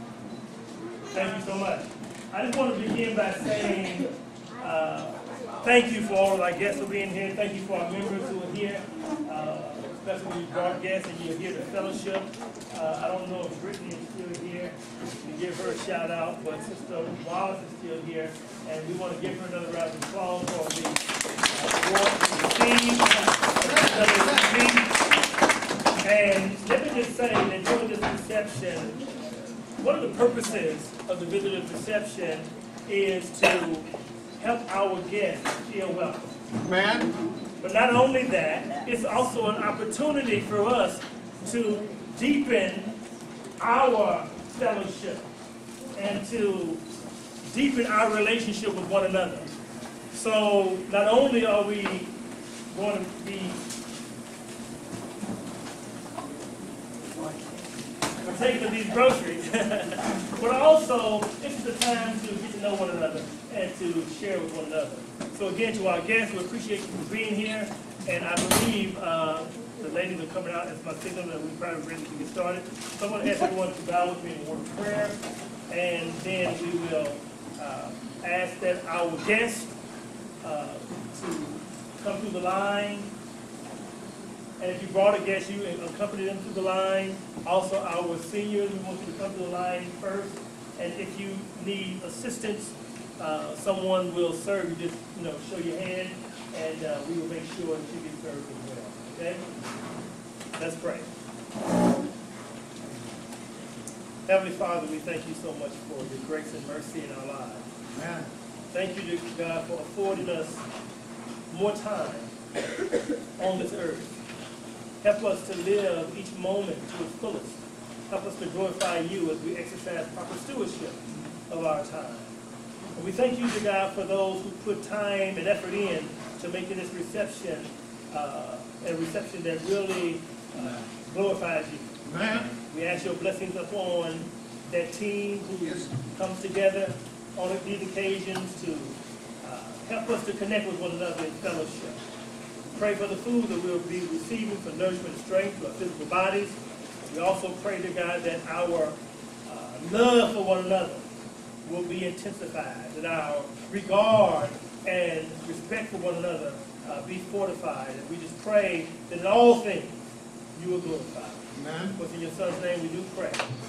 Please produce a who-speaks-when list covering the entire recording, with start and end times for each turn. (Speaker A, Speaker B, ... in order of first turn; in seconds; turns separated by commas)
Speaker A: 1.1-25.0, Speaker B: 23.6-24.2, Speaker A: 26.0-29.0, Speaker A: 29.8-36.3, Speaker B: 36.6-37.1, Speaker A: 37.6-43.0, Speaker A: 43.6-45.3, Speaker A: 46.0-46.8, Speaker A: 47.5-49.5, Speaker A: 50.1-52.1, Speaker A: 52.7-53.6, Speaker A: 58.2-79.7, Speaker A: 80.4-83.1, Speaker A: 84.6-99.4, Speaker A: 100.6-101.1, Speaker A: 104.3-107.7, Speaker B: 107.9-108.3, Speaker A: 108.7-110.7, Speaker A: 111.5-112.3, Speaker A: 113.4-114.2, Speaker A: 115.0-122.3, Speaker A: 123.0-131.9, Speaker B: 132.1-132.5, Speaker A: 132.5-142.0, Speaker A: 142.7-151.1, Speaker A: 151.7-159.9, Speaker A: 160.5-163.4, Speaker B: 161.6-161.9